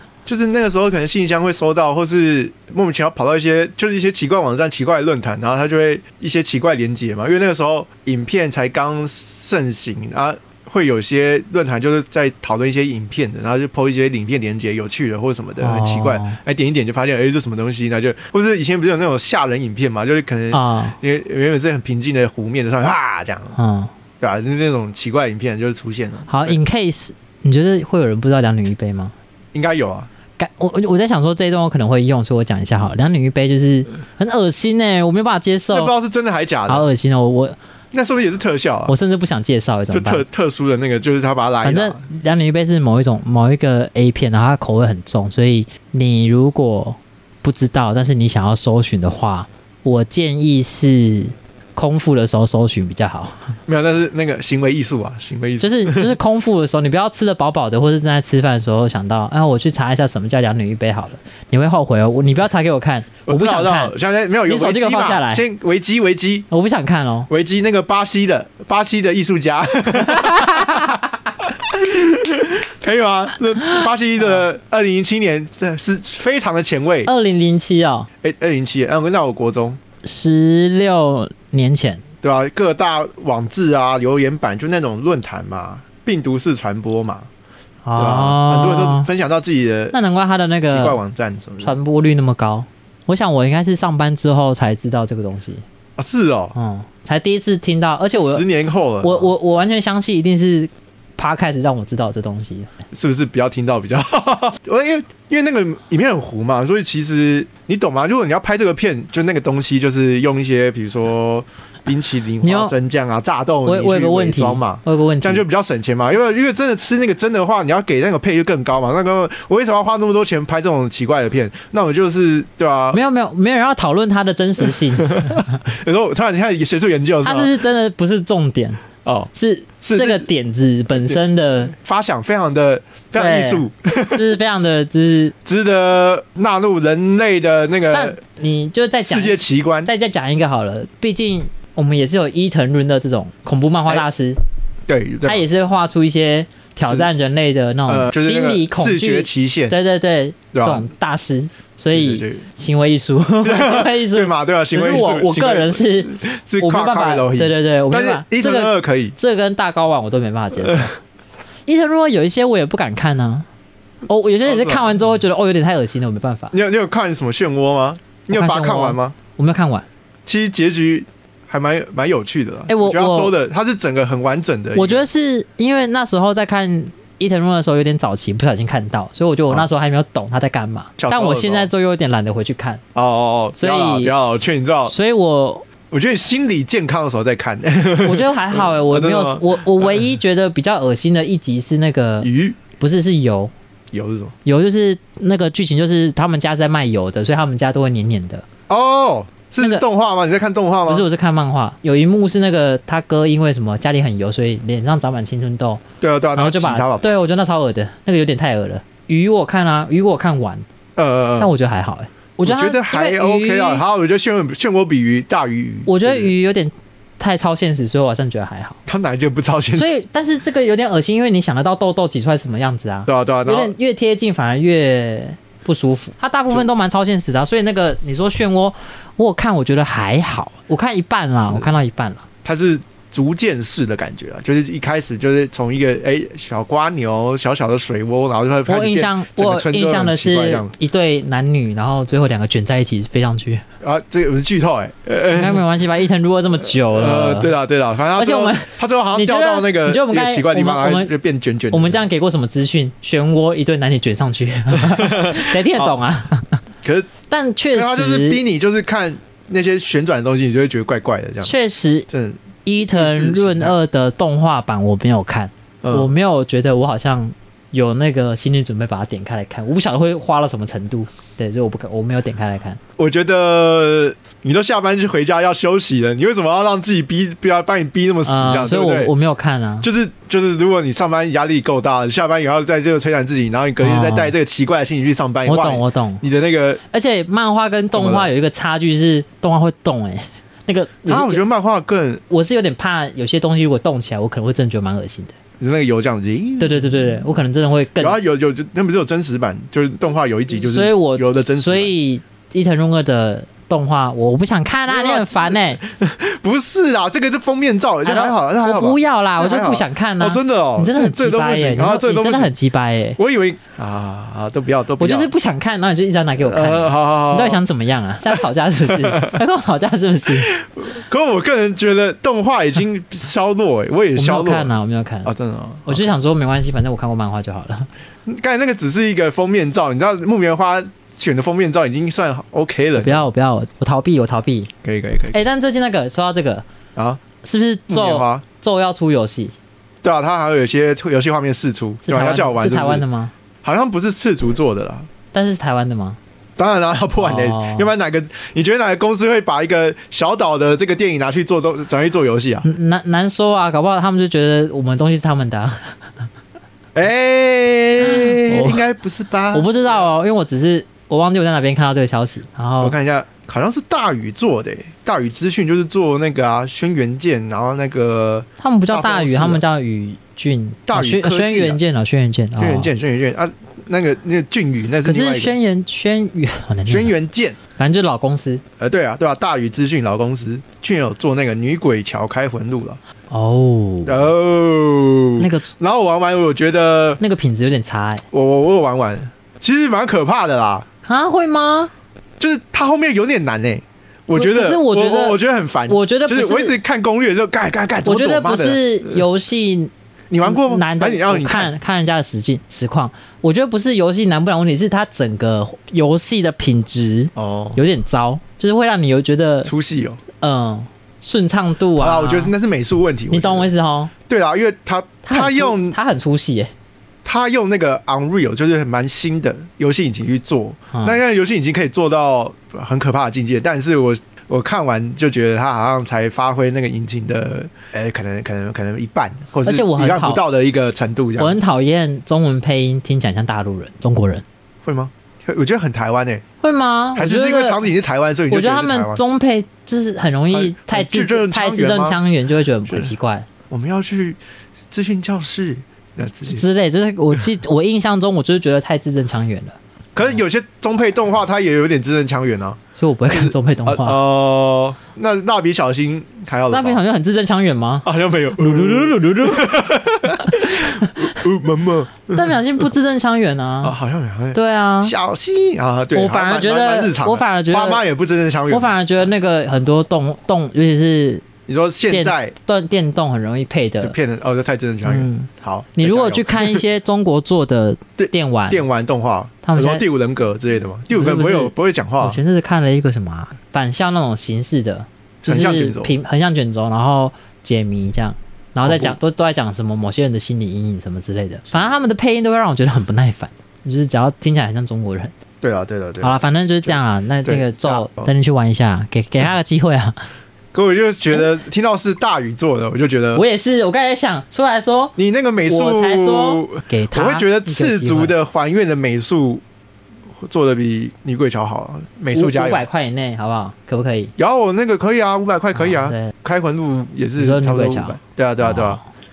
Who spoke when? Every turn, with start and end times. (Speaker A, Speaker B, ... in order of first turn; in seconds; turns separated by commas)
Speaker A: 0.3-23.6, Speaker B: 15.6-16.4, Speaker B: 20.5-21.0, Speaker B: 23.6-23.9, Speaker A: 24.2-26.6, Speaker B: 26.3-29.1, Speaker A: 29.5-30.1, Speaker B: 30.4-35.9, Speaker A: 35.7-36.9, Speaker B: 36.7-37.6, Speaker A: 37.9-38.9, Speaker B: 38.9-40.2, Speaker A: 39.9-42.0, Speaker B: 41.6-53.6, Speaker A: 53.7-56.1, Speaker B: 55.6-63.9, Speaker A: 63.2-66.5, Speaker B: 64.5-65.4, Speaker B: 66.5-67.3, Speaker A: 67.3-71.0, Speaker B: 70.2-70.6, Speaker A: 71.7-77.1, Speaker B: 77.1-78.1, Speaker A: 78.2-79.8, Speaker B: 80.0-82.0, Speaker A: 82.2-87.3, Speaker B: 87.8-89.1, Speaker A: 88.0-90.0, Speaker B: 89.9-91.0, Speaker A: 90.7-91.8, Speaker B: 91.6-95.6, Speaker A: 96.0-96.5, Speaker B: 96.5-98.5, Speaker A: 98.2-99.3, Speaker B: 99.0-102.7, Speaker A: 102.9-123.0, Speaker B: 112.4-112.8, Speaker B: 113.7-115.5, Speaker B: 122.9-125.5, Speaker A: 125.0-127.5, Speaker B: 127.2-128.8, Speaker A: 129.1-130.3, Speaker B: 129.3-131.7, Speaker A: 130.9-131.2, Speaker A: 131.8-134.3, Speaker B: 133.2-135.3, Speaker A: 135.4-138.2, Speaker B: 137.9-144.4, Speaker A: 139.0-139.9, Speaker A: 144.9-145.5, Speaker B: 145.2-161.0, Speaker A: 147.9-149.8, Speaker A: 150.5-150.9, Speaker A: 151.9-152.5, Speaker A: 153.4-159.2, Speaker A: 160.6-160.9, Speaker B: 161.7-163.5, Speaker B: 164.1-166.5, Speaker A: 164.4-165.0, Speaker A: 166.5-169.2, Speaker B: 168.3-169.9, Speaker A: 170.3-175.1, Speaker B: 172.7-173.3, Speaker B: 174.8-182.8, Speaker A: 181.0-181.7, Speaker A: 182.9-184.9, Speaker B: 183.6-184.1, Speaker B: 184.9-185.7, Speaker A: 185.9-190.0, Speaker B: 188.0-193.5, Speaker A: 192.2-192.6, Speaker A: 193.9-194.3, Speaker B: 194.4-198.4, Speaker A: 198.7-201.1, Speaker B: 200.9-205.8, Speaker A: 206.0-207.1, Speaker B: 206.3-210.7, Speaker A: 211.0-211.5, Speaker B: 211.4-213.8, Speaker A: 212.4-216.3, Speaker B: 215.9-218.8, Speaker A: 218.9-219.9, Speaker B: 219.8-232.2, Speaker A: 223.1-223.7, Speaker A: 231.4-231.7, Speaker A: 232.4-240.7, Speaker B: 238.7-243.6, Speaker A: 243.8-245.6, Speaker B: 245.3-247.6, Speaker A: 246.8-252.0, Speaker B: 248.2-251.1, Speaker B: 251.7-256.6, Speaker A: 254.9-256.0, Speaker A: 256.8-257.1, Speaker B: 257.3-258.4, Speaker A: 257.7-261.5, Speaker B: 261.4-262.1, Speaker A: 262.1-263.8, Speaker B: 262.7-272.8, Speaker A: 265.8-266.1, Speaker A: 273.0-279.1, Speaker B: 278.2-279.9, Speaker A: 279.8-286.8, Speaker B: 283.8-284.3, Speaker B: 285.5-286.2, Speaker B: 286.9-291.4, Speaker A: 287.9-288.3, Speaker A: 291.1-292.2, Speaker B: 292.3-295.4, Speaker A: 295.6-297.3, Speaker B: 296.6-298.2, Speaker A: 298.0-301.9, Speaker B: 300.5-305.8, Speaker A: 304.9-312.5, Speaker B: 308.1-313.2, Speaker A: 313.2-315.3, Speaker B: 315.0-320.5, Speaker A: 316.4-317.6, Speaker A: 318.9-319.4, Speaker A: 320.3-324.7, Speaker B: 324.2-325.3, Speaker A: 325.2-326.1, Speaker B: 325.9-327.9, Speaker A: 328.3-333.3, Speaker B: 333.0-334.7, Speaker A: 334.8-335.4, Speaker B: 335.3-336.7, Speaker A: 337.0-337.2, Speaker B: 337.4-339.5, Speaker A: 337.9-338.4, Speaker A: 340.0-343.1, Speaker B: 342.1-343.3, Speaker A: 343.6-345.1, Speaker B: 345.3-346.2, Speaker A: 346.6-352.7, Speaker B: 347.2-347.9, Speaker B: 352.6-356.3, Speaker A: 356.9-360.1, Speaker B: 358.0-358.8, Speaker B: 359.5-363.0, Speaker A: 362.8-369.6, Speaker B: 368.6-372.9, Speaker A: 370.9-371.8, Speaker A: 372.6-375.6, Speaker B: 375.0-377.1, Speaker A: 376.9-377.6, Speaker B: 377.8-378.6, Speaker A: 378.8-383.0, Speaker B: 383.3-384.3, Speaker A: 384.1-387.2, Speaker B: 385.4-385.7, Speaker B: 387.2-388.2, Speaker A: 388.3-390.9, Speaker B: 391.1-391.9, Speaker A: 392.4-399.2, Speaker B: 394.3-396.8, Speaker B: 398.0-399.9, Speaker A: 400.3-401.7, Speaker B: 400.4-409.7, Speaker A: 407.4-407.8, Speaker A: 409.6-410.2, Speaker B: 410.4-412.5, Speaker A: 412.0-413.7, Speaker B: 413.3-414.1, Speaker A: 414.3-416.0, Speaker B: 415.2-416.7, Speaker A: 417.2-431.6, Speaker B: 420.9-421.2, Speaker B: 429.6-430.4, Speaker B: 431.4-434.4, Speaker A: 434.9-436.4, Speaker B: 436.6-437.9, Speaker A: 437.2-439.2, Speaker B: 438.5-443.5, Speaker A: 440.5-442.2, Speaker A: 442.9-443.1, Speaker A: 443.7-444.4, Speaker A: 444.9-446.6, Speaker B: 446.4-449.8, Speaker A: 450.2-452.8, Speaker B: 453.0-454.2, Speaker A: 453.3-457.0, Speaker B: 456.7-458.1, Speaker A: 458.0-462.9, Speaker B: 458.6-459.8, Speaker B: 460.5-461.4, Speaker B: 462.3-463.9, Speaker A: 463.8-469.3, Speaker B: 464.5-465.1, Speaker B: 466.1-468.0, Speaker B: 468.7-471.4, Speaker A: 471.7-472.6, Speaker B: 472.1-474.1, Speaker A: 474.0-476.8, Speaker B: 475.1-478.9, Speaker A: 478.2-482.4, Speaker B: 479.6-480.0, Speaker B: 481.1-495.3, Speaker A: 485.4-486.2, Speaker A: 488.8-489.2, Speaker A: 495.6-498.3, Speaker B: 496.2-500.3, Speaker A: 500.7-503.4, Speaker B: 503.3-505.1, Speaker A: 505.2-509.6, Speaker B: 505.7-508.3, Speaker A: 510.4-512.9, Speaker B: 512.3-514.3, Speaker A: 514.4-519.0, Speaker B: 515.7-516.3, Speaker B: 517.4-519.0